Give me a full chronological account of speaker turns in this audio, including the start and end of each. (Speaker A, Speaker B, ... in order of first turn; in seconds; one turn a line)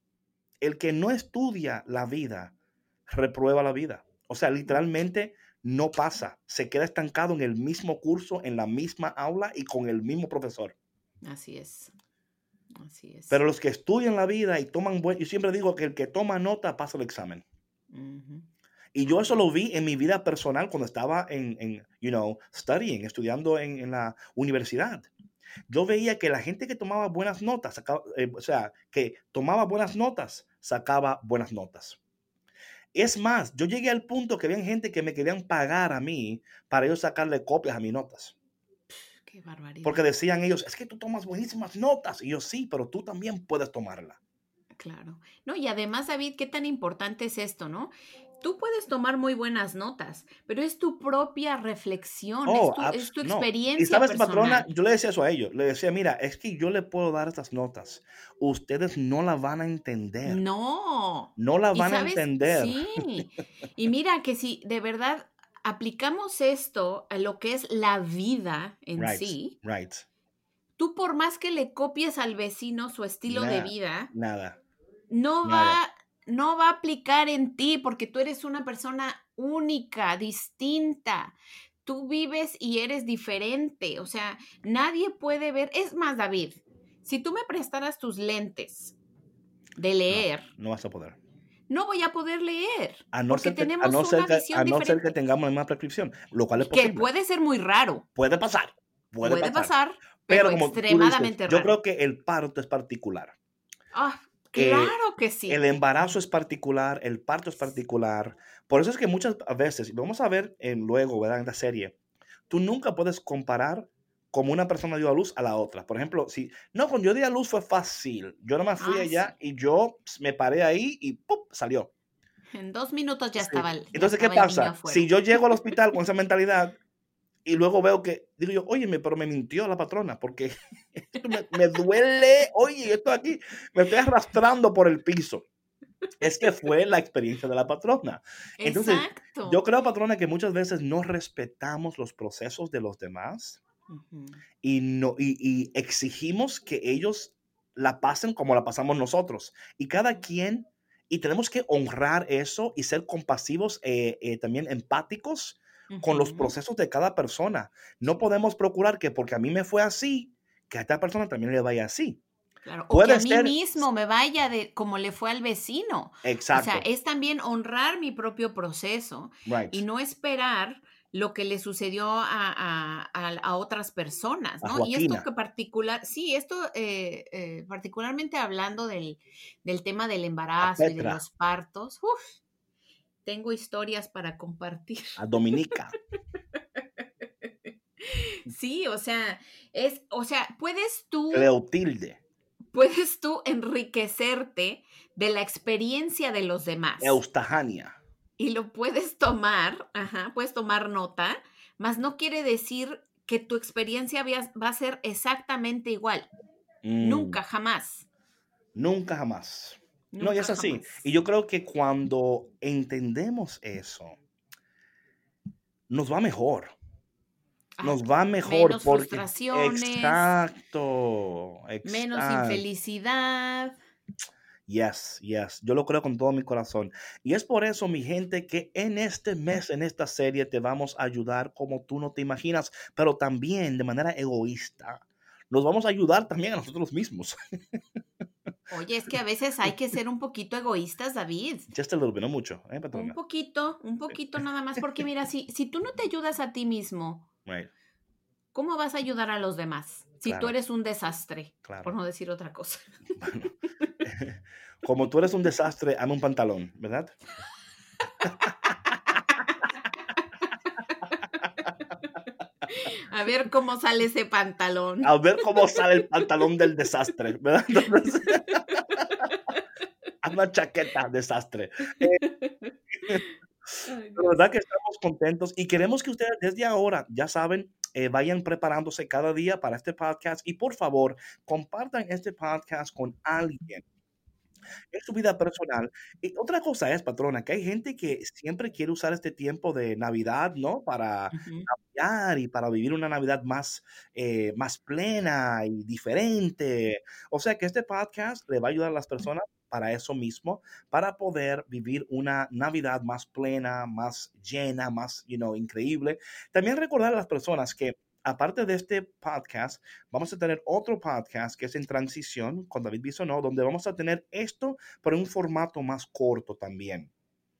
Speaker A: 0.6-2.5
Speaker A: 3.1-10.8
Speaker B: 11.2-11.9
Speaker B: 12.8-13.4
Speaker A: 13.3-17.4
Speaker B: 17.9-18.5
Speaker A: 18.9-25.1
Speaker B: 19.1-19.4
Speaker A: 25.7-32.0
Speaker A: 32.9-38.3
Speaker B: 38.9-40.0
Speaker A: 39.8-44.2
Speaker B: 44.8-54.7
Speaker A: 52.5-60.4
Speaker B: 60.2-69.5
Speaker A: 61.4-62.9
Speaker A: 69.0-70.1
Speaker B: 70.8-74.1
Speaker A: 73.3-74.6
Speaker B: 75.1-89.0
Speaker A: 75.4-75.8
Speaker B: 89.8-90.5
Speaker A: 90.1-91.2
Speaker B: 91.7-95.1
Speaker A: 93.1-97.1
Speaker B: 96.7-98.1
Speaker A: 98.2-99.7
Speaker B: 99.2-101.8
Speaker A: 100.3-103.3
Speaker B: 103.9-105.8
Speaker A: 104.6-105.0
Speaker A: 105.5-112.0
Speaker A: 112.5-121.9
Speaker B: 118.8-119.3
Speaker B: 122.5-125.7
Speaker A: 123.4-126.8
Speaker A: 127.5-135.4
Speaker A: 136.2-143.6
Speaker B: 138.6-139.6
Speaker B: 143.9-144.4
Speaker A: 144.6-162.2
Speaker B: 155.9-156.5
Speaker B: 162.7-182.4
Speaker A: 162.9-163.8
Speaker A: 166.2-166.8
Speaker A: 169.5-169.8
Speaker A: 174.6-175.3
Speaker A: 180.6-181.2
Speaker B: 183.2-185.2
Speaker A: 185.2-185.9
Speaker B: 188.0-191.5
Speaker A: 191.3-192.2
Speaker B: 192.7-197.2
Speaker A: 197.0-198.0
Speaker B: 198.4-206.3
Speaker A: 206.8-207.4
Speaker B: 207.0-208.1
Speaker A: 208.8-214.2
Speaker B: 210.1-211.0
Speaker A: 215.9-216.8
Speaker B: 217.8-220.3
Speaker A: 217.8-222.6
Speaker B: 221.8-223.8
Speaker A: 224.7-237.8
Speaker B: 238.7-241.7
Speaker A: 241.7-243.2
Speaker B: 242.9-247.3
Speaker A: 247.4-247.7
Speaker B: 248.5-253.0
Speaker A: 250.2-250.6
Speaker A: 251.7-251.9
Speaker A: 253.2-257.1
Speaker B: 258.2-258.5
Speaker B: 262.7-265.2
Speaker A: 265.0-269.1
Speaker B: 265.8-266.2
Speaker B: 268.3-269.5
Speaker A: 270.2-272.2
Speaker B: 272.0-273.3
Speaker B: 273.8-274.5
Speaker A: 274.2-283.8
Speaker A: 284.9-317.1
Speaker B: 291.3-291.7